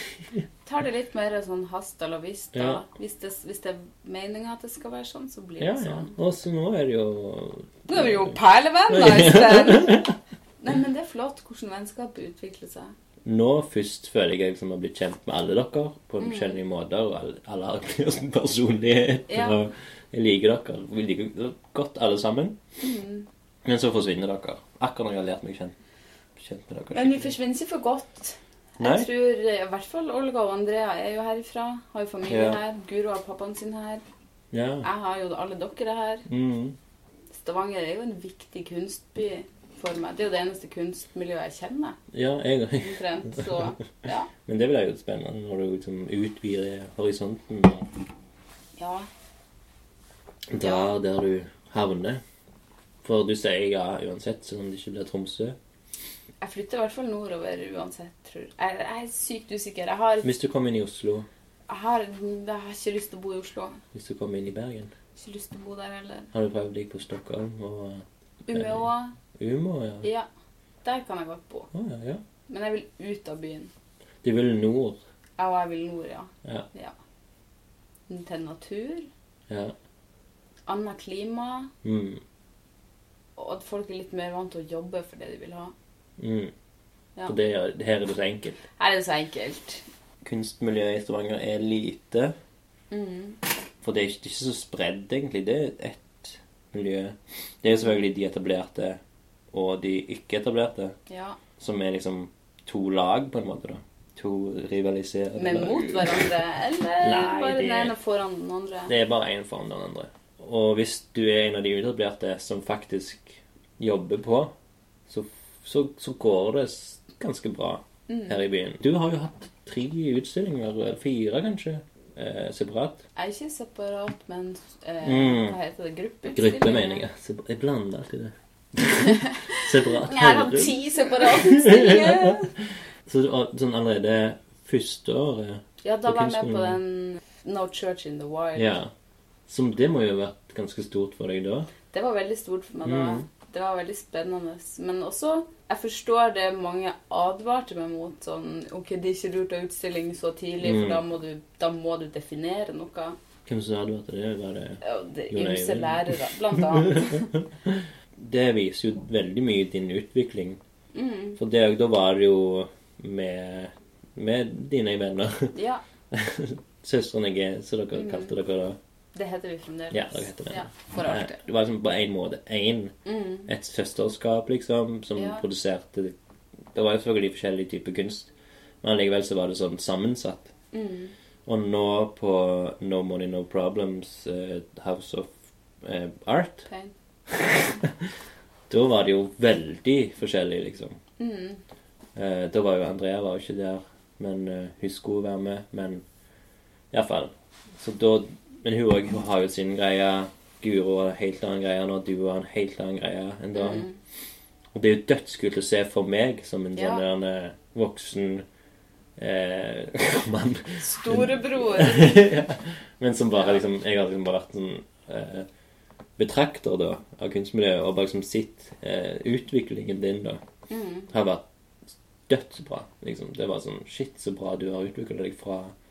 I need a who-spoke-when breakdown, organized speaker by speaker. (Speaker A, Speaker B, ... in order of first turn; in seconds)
Speaker A: 0.7-6.2, 7.9-10.1, 10.6-12.9, 16.2-16.6, 19.3-19.6, 22.8-23.3, 26.9-34.0, 34.8-36.3, 37.3-42.0, 42.8-44.3, 48.8-49.1, 50.6-50.9, 56.4-60.3, 61.7-63.8, 65.2-66.3, 68.5-69.2, 70.0-70.3, 70.8-71.7, 72.5-73.7, 75.4-76.9, 78.1-79.1, 80.7-81.7, 83.4-85.7, 88.8-89.8, 92.9-93.4, 101.1-101.4, 105.4-108.9, 118.1-118.4, 123.2-127.0, 129.1-132.5, 135.8-138.8, 141.9-153.2, 154.8-157.3, 160.9-161.4, 165.5-165.8, 167.9-168.3, 169.2-171.4, 173.1-173.5, 175.2-175.4, 180.7-181.1, 186.7-186.9, 191.2-191.6, 203.6-204.0, 206.8-207.0, 210.8-212.4, 213.4-213.6, 220.7-221.1
Speaker B: 2.5-2.8, 5.6-8.4, 8.9-10.2, 13.2-22.6, 23.6-25.8, 26.4-27.3, 28.8-29.1, 32.3-32.6, 34.5-34.9, 36.3-36.8, 42.1-43.7, 44.4-47.9, 50.5-52.2, 53.0-55.6, 60.2-61.3, 63.9-64.9, 66.3-70.1, 71.7-72.2, 74.2-75.0, 79.5-79.7, 81.8-82.2, 86.2-86.5, 87.3-88.6, 90.2-92.3, 93.8-99.0, 99.5-101.0, 101.6-106.3, 107.0-107.9, 108.9-114.5, 115.1-123.0, 125.0-125.6, 126.3-132.5, 133.1-136.8, 138.6-138.9, 139.5-141.7, 142.8-143.3, 150.6-151.0, 153.4-160.6, 161.4-165.5, 166.1-168.8, 169.9-172.9, 173.5-176.2, 176.7-180.5, 181.4-186.7, 187.3-188.1, 188.7-191.0, 192.2-196.0, 196.9-203.9, 204.7-208.5, 209.2-215.5, 216.2-220.4, 221.1-221.4, 222.3-225.7